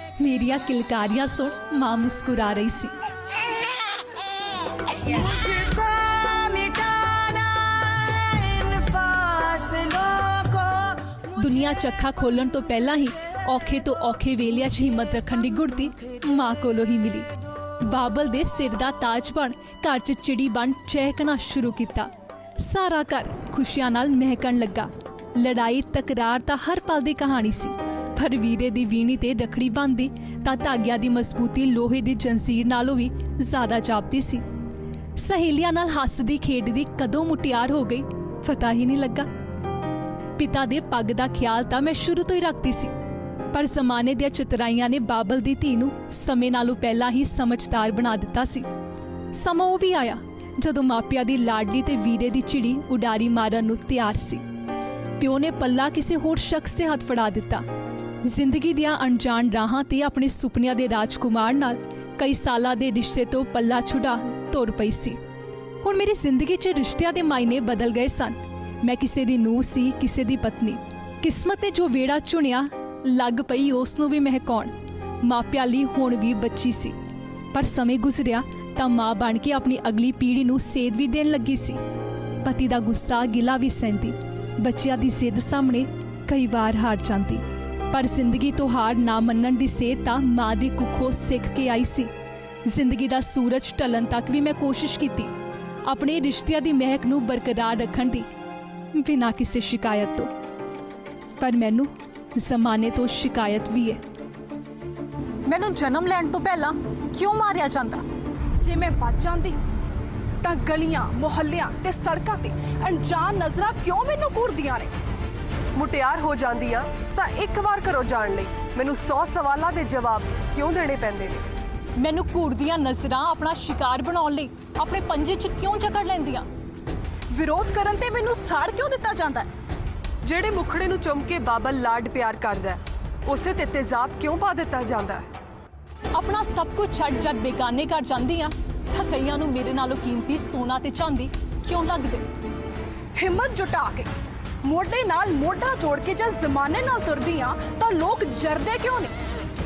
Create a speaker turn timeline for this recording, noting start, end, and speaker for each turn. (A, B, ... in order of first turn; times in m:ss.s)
0:00.2-0:02.9 A
0:05.0-0:10.9 B
0:11.3-0:34.4 A
0:35.2-0:39.3 A
0:40.4-0:42.9 A
0:43.5-0:48.6 A
0:49.3-0:54.4 A
0:55.2-0:57.6 A
0:58.2-1:05.2 A
1:05.8-1:16.9 A
1:17.5-1:21.8 A
1:22.4-1:32.1 A
1:32.6-1:35.3 A
1:35.8-1:38.3 A
1:38.9-1:40.3 A
1:41.4-1:44.0 A
1:45.4-1:48.0 A
1:48.6-1:49.6 B
1:50.4-1:54.9 B
1:55.7-2:01.4 C
2:02.0-2:06.5 A
2:07.3-2:09.5 B
2:10.2-2:15.3 C
2:16.1-2:22.2 A
2:23.2-2:24.1 B
2:24.6-2:29.1 B